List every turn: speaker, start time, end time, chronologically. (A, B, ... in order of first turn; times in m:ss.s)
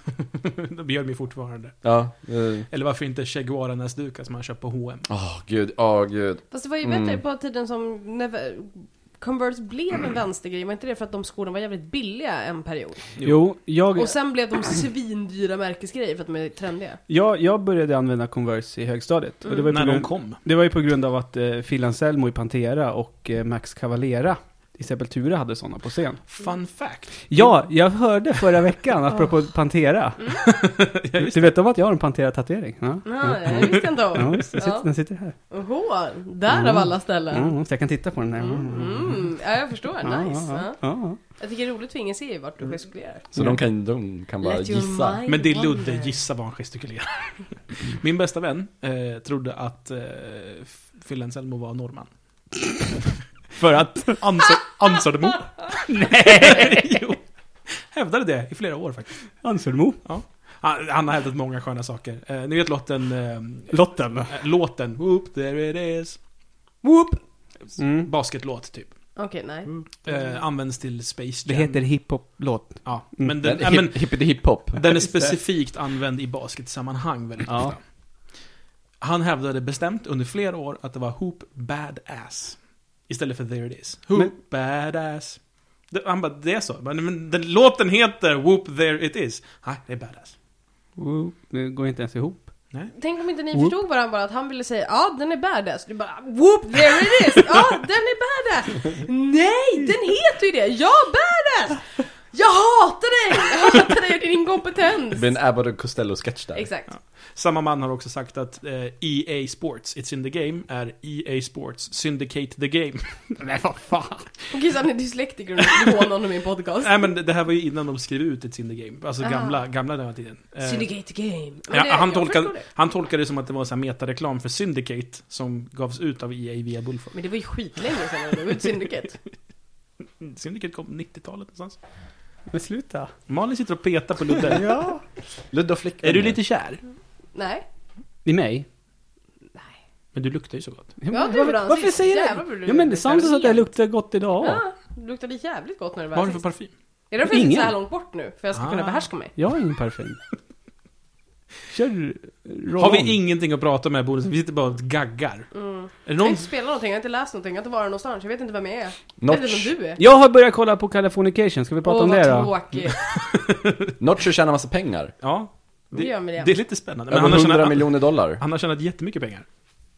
0:00.4-0:02.0 A
0:01.8-0:02.7 B
0:02.7-0:05.1 A
0:05.1-0:07.2 B
0:06.5-0:13.1 C
0:13.2-0:13.4 A
0:13.2-0:14.2 D
0:14.0-0:17.0 C
0:17.1-0:26.2 D
0:19.7-0:20.4 A
0:26.3-0:27.5 A
0:27.3-0:30.6 D
0:30.4-0:31.6 A
0:31.2-0:35.4 D
0:33.0-0:34.9 C
0:35.5-0:37.6 C
0:36.5-0:39.3 D
0:38.4-0:43.3 C
0:40.0-0:41.2 D
0:43.3-0:45.2 B
0:44.4-0:46.2 C
0:45.3-0:52.1 A
0:53.6-0:54.2 D
0:54.0-0:59.3 A
0:55.9-0:56.8 D
0:59.4-1:00.0 D
1:00.0-1:06.2 A
1:03.7-1:04.3 D
1:06.8-1:07.2 C
1:07.8-1:08.1 D
1:07.9-1:08.9 A
1:09.2-1:09.7 C
1:10.0-1:12.1 A
1:11.5-1:13.4 D
1:12.8-1:17.8 A
1:13.4-1:14.9 B
1:17.5-1:17.8 D
1:19.0-1:25.4 A
1:25.9-1:30.3 A
1:31.0-1:32.5 D
1:33.0-1:45.3 C
1:45.1-1:46.7 B
1:46.5-1:46.9 C
1:46.9-1:53.4 A
1:53.4-1:54.2 D
1:54.5-1:57.0 C
1:56.8-2:00.9 A
1:59.2-1:59.6 C
2:00.6-2:02.6 C
2:01.7-2:07.2 A
2:07.1-2:09.2 C
2:10.2-2:11.8 A
2:12.5-2:13.1 D
2:13.3-2:14.7 A
2:14.5-2:15.0 D
2:15.5-2:16.4 B
2:16.0-2:16.8 A
2:17.3-2:17.6 C
2:18.2-2:18.7 D
2:20.1-2:21.0 A
2:21.0-2:24.6 D
2:21.1-2:23.7 C
2:24.4-2:26.4 C
2:26.1-2:26.7 A
2:27.1-2:29.3 C
2:27.2-2:27.8 D
2:28.5-2:29.1 A
2:29.4-2:30.2 D
2:31.7-2:33.2 D
2:32.8-2:35.5 A
2:35.5-2:40.0 C
2:36.0-2:36.5 A
2:39.2-2:39.7 B
2:40.0-2:42.5 D
2:41.8-2:43.0 C
2:43.0-2:43.7 A
2:44.0-2:45.1 B
2:45.2-2:49.5 A
2:45.9-2:46.5 C
2:47.1-2:48.4 B